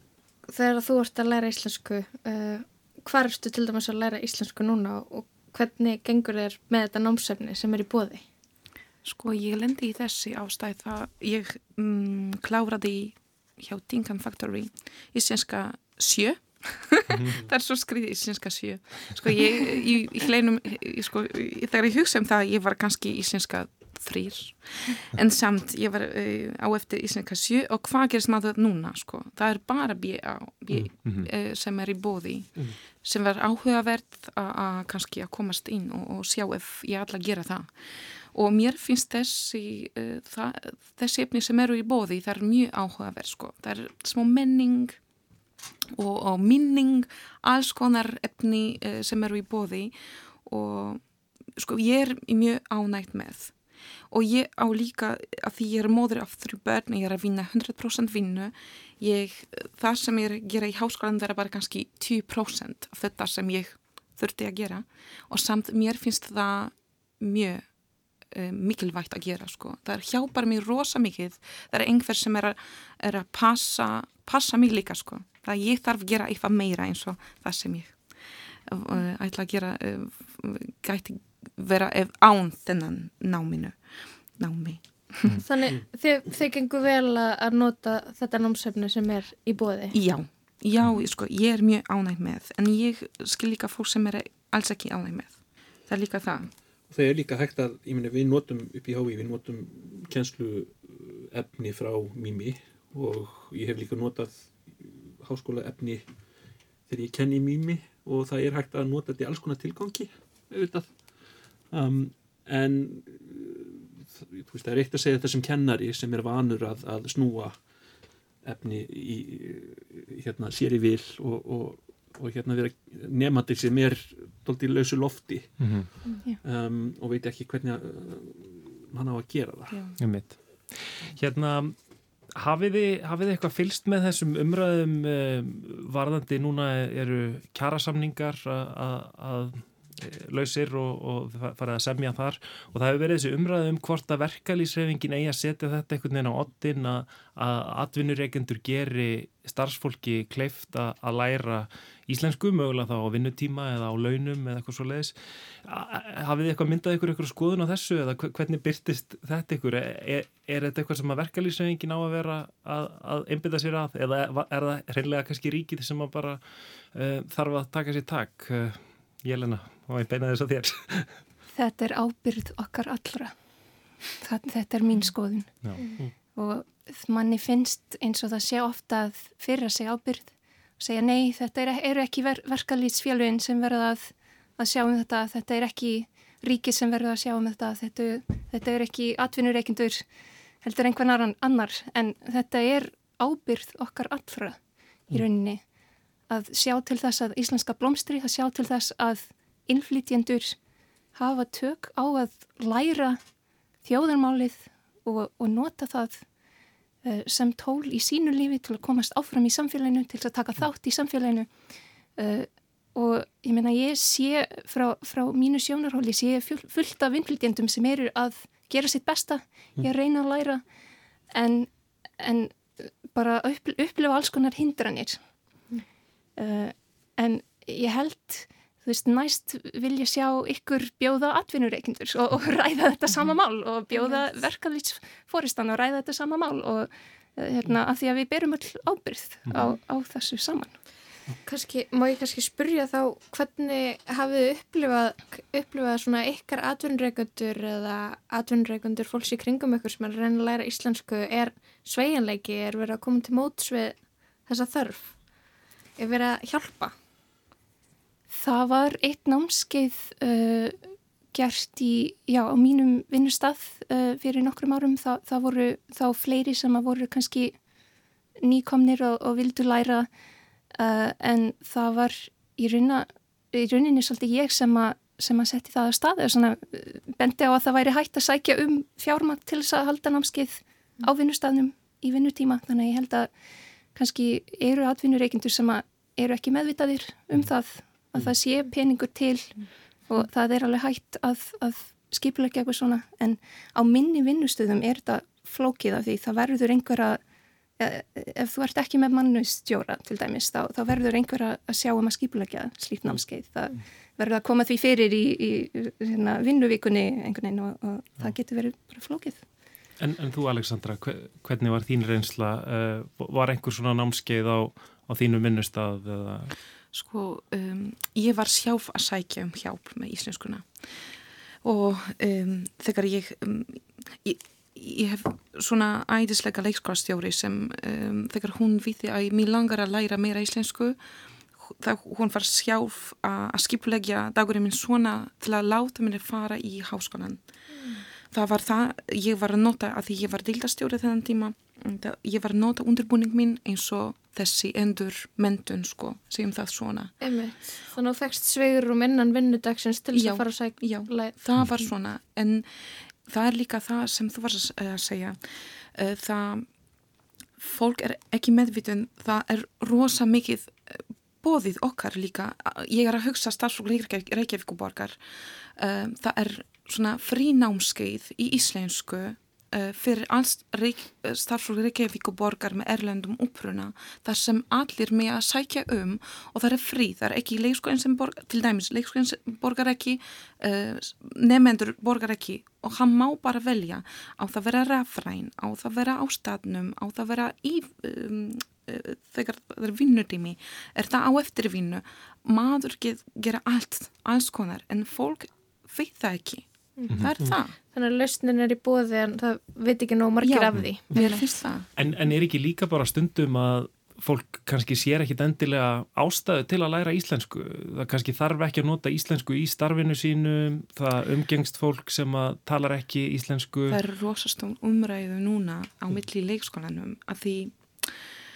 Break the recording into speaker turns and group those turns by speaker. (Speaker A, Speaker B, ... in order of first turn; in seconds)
Speaker A: 0.5-8.2, 85.4-90.0, 233.9-234.2, 241.4-255.2, 256.0-256.9, 337.7-338.0, 347.2-351.4, 397.0-397.3, 397.9-401.5
Speaker B: 9.1-37.7, 38.3-45.0, 46.0-49.9, 50.5-51.0, 51.6-53.5, 54.1-67.6, 68.3-78.0, 78.7-83.8, 84.4-85.4, 89.9-96.5, 129.7-130.0, 316.9-320.7, 321.6-331.0, 331.6-337.4, 338.3-347.1, 350.1-352.7, 353.3-356.7, 357.6-365.2, 365.8-397.8, 400.4-401.9, 413.9-418.2
Speaker C: 31.1-31.3, 125.6-125.9, 130.0-131.8, 132.4-166.4, 166.9-171.0, 175.6-175.9, 310.0-316.5, 402.0-414.0
Speaker D: 96.9-106.0, 106.9-111.0, 111.7-117.6, 118.5-125.7, 126.4-129.8
Speaker E: 171.6-173.3, 174.2-175.5, 176.3-190.0, 190.6-194.6, 195.1-195.6, 196.3-200.6, 201.2-203.2, 203.8-206.2, 207.0-211.5, 212.2-220.6, 221.3-225.2, 226.4-240.7, 258.3-260.8, 261.3-267.6, 268.4-270.1, 270.8-283.3, 283.9-297.2, 297.8-309.4